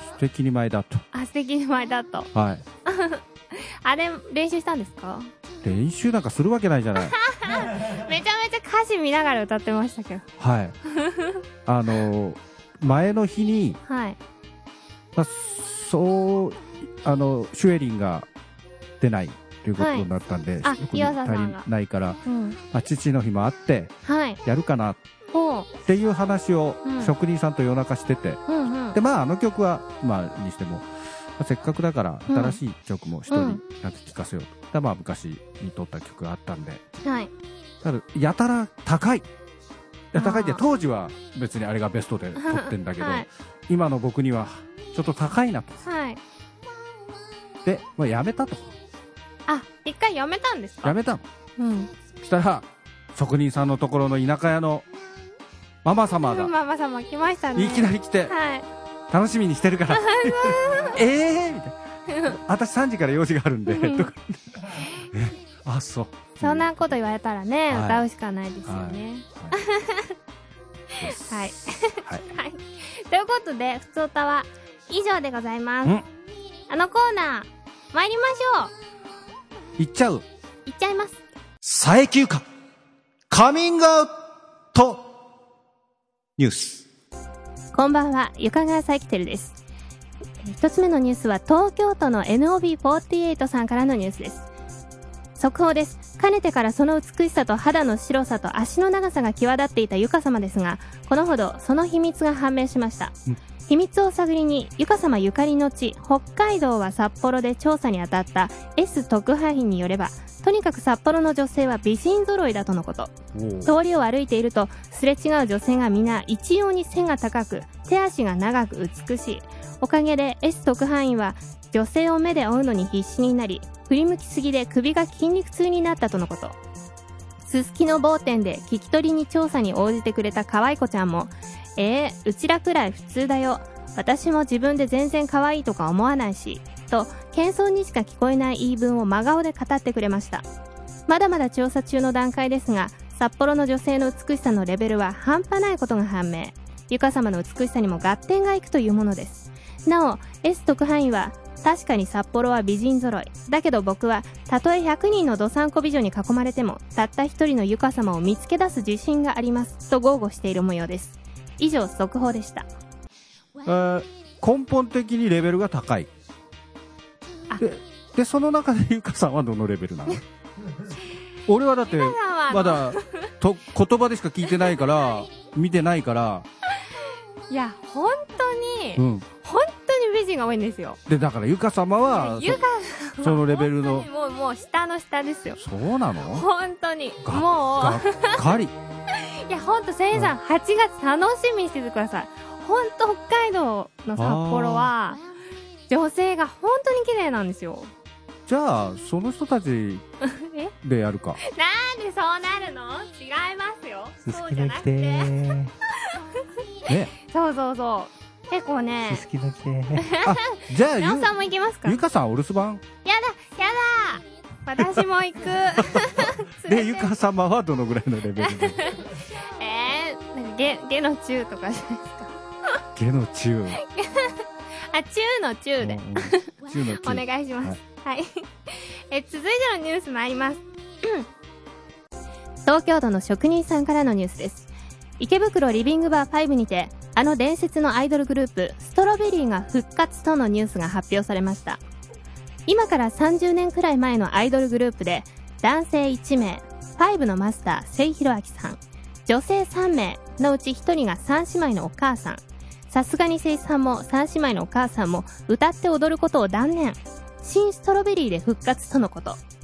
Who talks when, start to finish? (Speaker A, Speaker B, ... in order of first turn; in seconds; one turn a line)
Speaker A: 0.1-1.0
Speaker B: 1.1-2.3
Speaker A: 2.3-2.6
Speaker B: 2.8-5.3
Speaker A: 5.6-7.1
Speaker B: 7.0-10.2
Speaker A: 10.4-10.8
Speaker B: 10.9-11.4
Speaker A: 11.7-13.8
Speaker B: 13.8-14.2
Speaker A: 15.1-18.3
Speaker A: 19.0-25.0
Speaker B: 19.8-20.1
Speaker B: 20.6-21.7
Speaker B: 22.2-22.6
Speaker B: 24.1-24.4
Speaker B: 25.3-25.7
Speaker A: 25.8-28.4
Speaker B: 26.8-27.1
Speaker B: 28.5-29.0
Speaker A: 28.9-36.8
Speaker B: 32.3-32.6
Speaker B: 33.3-33.6
Speaker B: 37.0-37.3
Speaker A: 37.8-39.2
Speaker A: 40.1-45.8
Speaker B: 40.1-40.6
Speaker B: 42.4-43.2
Speaker B: 45.8-46.2
Speaker A: 47.6-48.7
Speaker B: 49.5-51.0
Speaker A: 50.8-51.2
Speaker B: 51.6-51.9
Speaker A: 52.2-54.9
Speaker A: 55.8-56.5
Speaker B: 56.2-58.7
Speaker A: 57.5-58.3
Speaker A: 59.1-66.9
Speaker B: 59.9-61.0
Speaker B: 63.7-64.1
Speaker B: 66.4-70.1
Speaker A: 67.7-68.0
Speaker A: 68.7-69.6
Speaker B: 71.0-76.0
Speaker A: 71.0-72.2
Speaker B: 76.7-78.7
Speaker A: 79.8-80.2
Speaker B: 80.7-81.2
Speaker A: 81.6-82.4
Speaker A: 83.3-85.1
Speaker A: 86.4-86.8
Speaker B: 87.7-89.5
Speaker B: 90.4-94.5
Speaker B: 95.4-103.2
Speaker B: 103.7-113.1
Speaker A: 113.3-113.7
Speaker B: 113.6-126.5
Speaker B: 127.5-140.4
Speaker B: 141.1-162.7
Speaker A: 163.6-166.1
Speaker A: 167.6-170.2
Speaker A: 171.5-176.5
Speaker B: 171.8-173.3
Speaker B: 177.5-181.0
Speaker A: 178.9-179.2
Speaker A: 181.1-182.6
Speaker B: 182.1-185.6
Speaker A: 183.2-184.1
Speaker A: 185.6-186.4
Speaker B: 186.3-188.4
Speaker A: 187.2-188.7
Speaker B: 189.2-195.2
Speaker A: 194.2-194.9
Speaker B: 195.9-197.9
Speaker A: 198.5-200.0
Speaker B: 200.2-200.7
Speaker A: 200.8-201.4
Speaker B: 201.4-206.2
Speaker C: 204.2-205.7
Speaker A: 206.9-207.1
Speaker B: 207.2-209.2
Speaker C: 209.1-210.2
Speaker B: 210.0-212.0
Speaker A: 210.2-212.8
Speaker B: 213.1-217.1
Speaker A: 215.8-218.9
Speaker B: 218.4-222.3
Speaker A: 222.9-223.8
Speaker B: 223.8-231.2
Speaker A: 225.8-227.8
Speaker B: 232.7-241.8
Speaker B: 242.7-259.4